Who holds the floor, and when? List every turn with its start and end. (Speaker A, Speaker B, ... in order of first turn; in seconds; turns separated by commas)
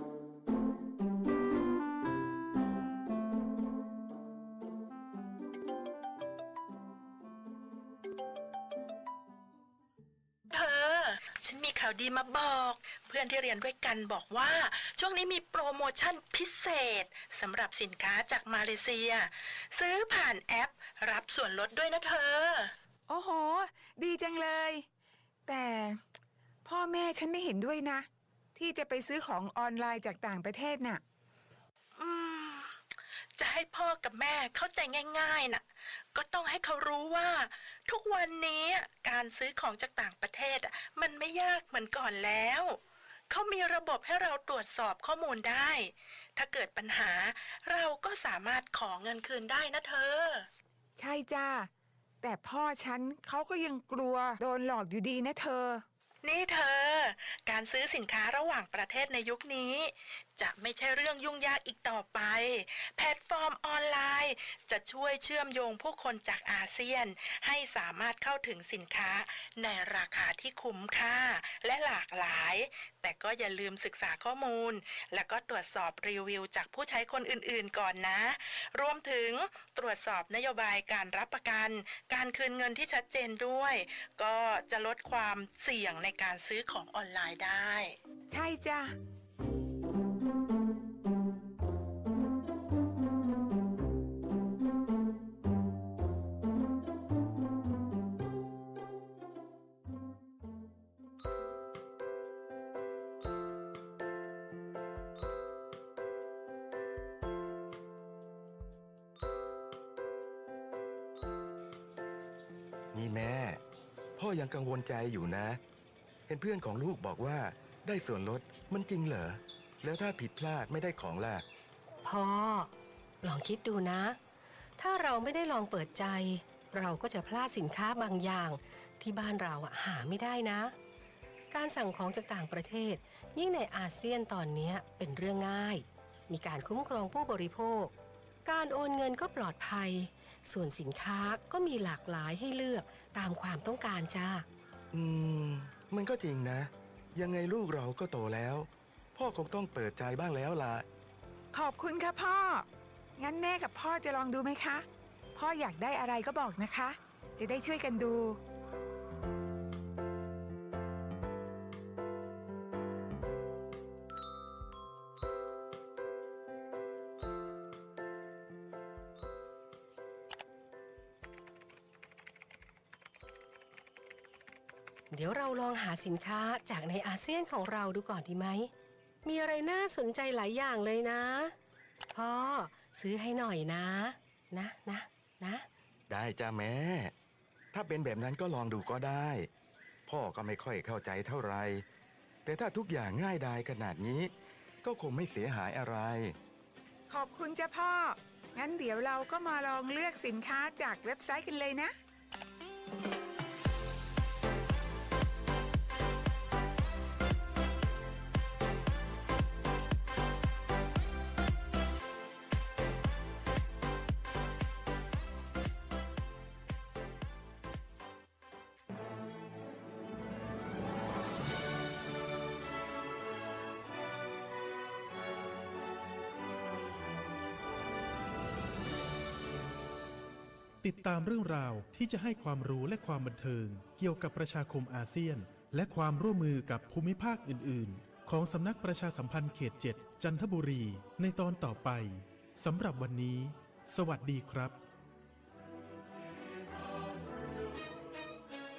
Speaker A: 10.5-22.7, Speaker B: 23.1-24.9, Speaker B: 25.5-26.0, Speaker B: 26.6-31.0, Speaker A: 32.0-32.8, Speaker A: 33.4-50.5, Speaker B: 51.0-51.7, Speaker B: 52.2-55.8, Speaker A: 56.2-88.0, Speaker B: 88.3-89.0, Speaker C: 112.9-113.6, Speaker C: 114.2-115.6, Speaker C: 116.3-121.4, Speaker D: 122.0-122.7, Speaker D: 123.2-124.2, Speaker D: 124.8-130.7, Speaker D: 131.5-137.9, Speaker D: 138.4-144.4, Speaker C: 144.9-150.8, Speaker B: 151.5-158.4, Speaker D: 175.1-178.7, Speaker D: 179.2-181.5, Speaker D: 182.1-185.7, Speaker C: 186.1-187.1, Speaker C: 187.7-189.5, Speaker C: 190.1-191.8, Speaker C: 192.4-194.3, Speaker C: 194.8-196.3, Speaker B: 197.1-201.9, Speaker E: 230.8-244.8